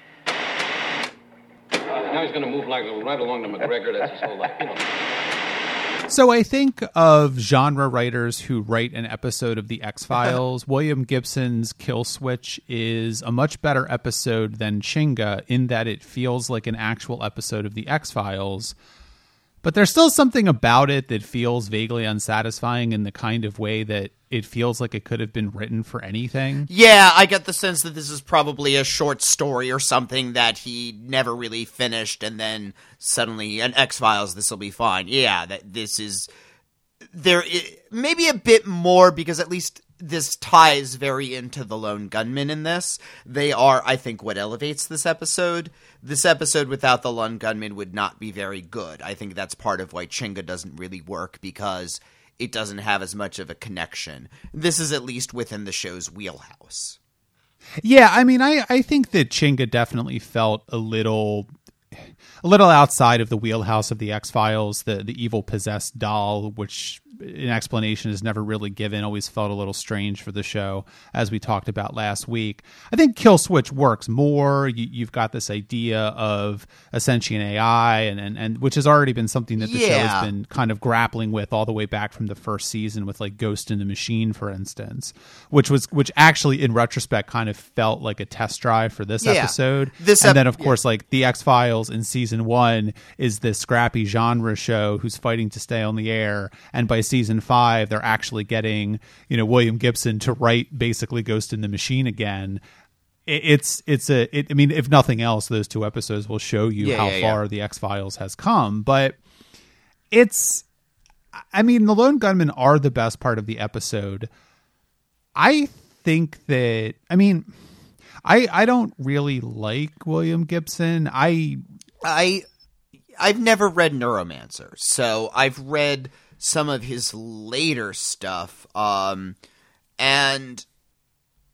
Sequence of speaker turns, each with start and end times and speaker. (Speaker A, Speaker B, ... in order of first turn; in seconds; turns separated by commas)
Speaker A: 2.0-4.9, Speaker B: 6.1-18.8, Speaker B: 19.6-26.7, Speaker C: 26.7-36.3, Speaker C: 37.1-57.0, Speaker B: 57.8-102.6, Speaker C: 79.6-80.3, Speaker C: 89.2-90.8, Speaker B: 103.3-109.2, Speaker C: 106.8-107.4, Speaker B: 110.1-110.7, Speaker B: 111.5-114.3, Speaker B: 115.4-117.5, Speaker B: 118.2-121.6, Speaker C: 122.0-122.5, Speaker C: 123.2-129.4, Speaker C: 130.0-130.7